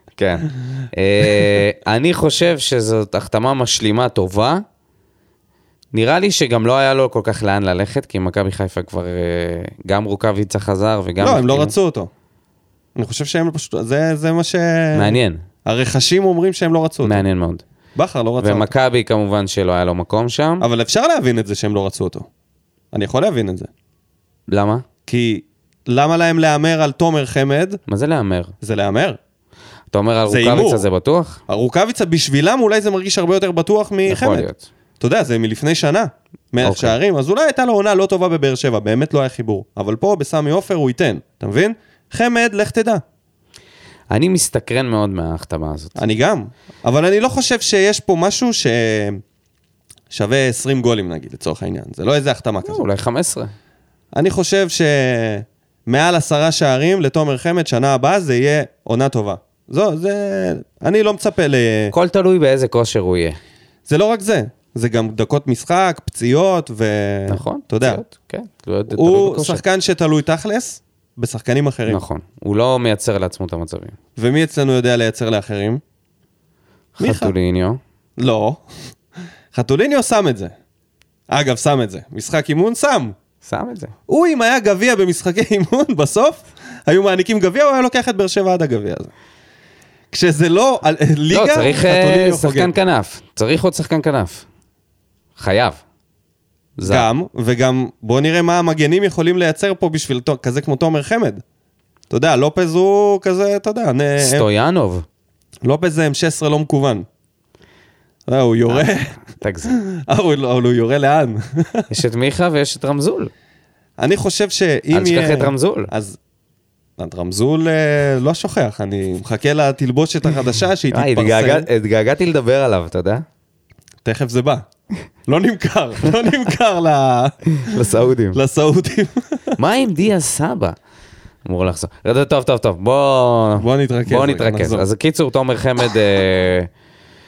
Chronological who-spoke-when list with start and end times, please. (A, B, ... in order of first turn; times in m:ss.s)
0:00.2-0:04.6 A
0:05.9-0:11.7 A
0:11.2-0:12.1 B
0:13.0-0:17.2 B
0:14.9-0:15.4 A
0:17.0-0:17.6 A
0:17.9-0:18.7 B
0:18.4-0:20.6 A
0:20.6-0:22.3 B
0:22.9-0:23.7 B
0:24.5-0:24.8 A
0:25.1-0:27.8 B
0:27.9-0:28.5 A
0:28.6-0:29.2 B
0:29.9-0:31.4 A
0:30.3-0:30.8 B
0:31.5-0:34.5 B
0:34.1-0:34.6 A
0:35.0-0:43.0 B
0:36.6-0:36.9 A
0:44.1-0:46.1 A
0:46.0-0:49.2 B
0:50.1-0:52.8 B
0:52.6-0:53.5 A
0:54.1-1:01.9 B
1:01.9-1:03.4 A
1:03.9-1:08.0 B
1:07.3-1:09.6 A
1:08.9-1:12.0 B
1:11.9-1:14.0 A
1:14.2-1:15.8 B
1:17.0-1:17.8 A
1:17.0-1:17.3 B
1:18.2-1:18.6 B
1:19.5-1:20.5 B
1:21.3-1:23.1 B
1:23.4-1:23.9 A
1:24.1-1:29.1 B
1:30.1-1:32.7 B
1:31.3-1:34.4 A
1:35.4-1:35.8 A
1:36.8-1:37.1 A
1:36.8-1:41.4 B
1:42.1-1:44.4 B
1:44.2-1:45.0 A
1:45.6-1:47.0 B
1:48.3-1:49.1 B
1:48.7-1:49.8 A
1:49.7-1:51.8 B
1:51.9-1:53.3 A
1:54.0-1:56.2 B
1:54.9-1:55.9 A
1:57.0-2:01.7 B
2:00.9-2:03.2 A
2:04.0-2:04.6 B
2:05.3-2:09.5 B
2:07.6-2:08.4 A
2:09.6-2:10.8 A
2:11.4-2:16.7 A
2:13.6-2:14.8 B